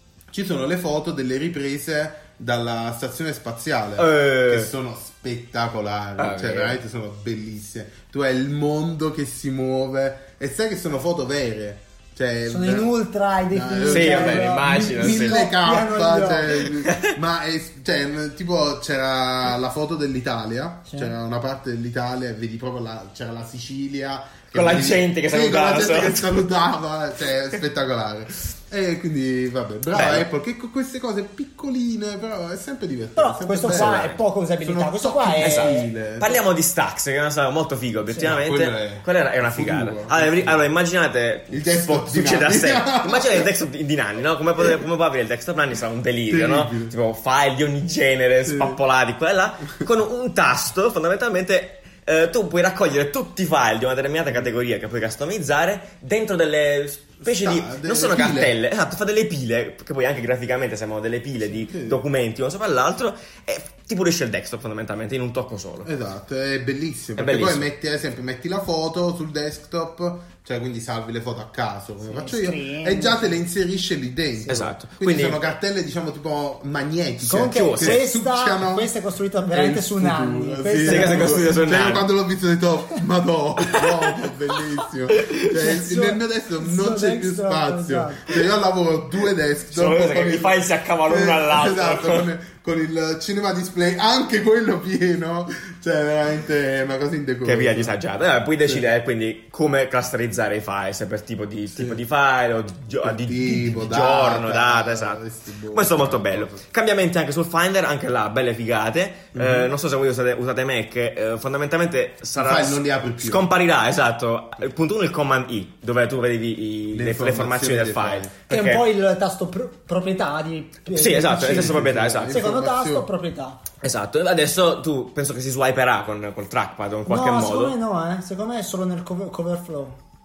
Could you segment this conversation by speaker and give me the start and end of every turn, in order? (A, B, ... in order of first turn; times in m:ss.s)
0:00.3-0:36.4 A
0:04.0-0:04.7 B
0:06.2-0:06.8 B
0:12.5-0:16.7 C
0:13.9-0:15.5 B
0:16.8-0:17.1 B
0:24.5-0:26.3 B
0:29.9-0:30.3 B
0:33.2-0:35.9 C
0:33.6-0:34.2 B
0:35.4-1:05.9 B
0:38.2-0:40.6 A
0:41.5-0:43.5 A
0:46.3-0:46.9 A
0:48.4-0:48.8 A
0:57.2-0:58.6 A
1:01.5-1:02.0 A
1:05.8-1:18.9 A
1:07.2-1:07.6 B
1:12.0-1:13.3 C
1:14.5-1:15.4 B
1:17.3-1:21.5 C
1:17.3-1:18.0 B
1:19.5-1:38.0 A
1:20.9-1:22.1 B
1:25.1-1:25.6 B
1:25.5-1:28.4 C
1:29.7-1:32.3 B
1:37.4-1:58.9 B
1:41.7-1:42.0 A
1:43.0-1:46.6 A
1:49.3-1:49.7 A
1:52.4-1:53.5 A
1:56.9-1:58.3 A
1:58.5-2:03.6 C
2:00.9-2:02.4 B
2:01.2-2:03.1 A
2:03.8-2:07.8 B
2:07.1-2:10.0 C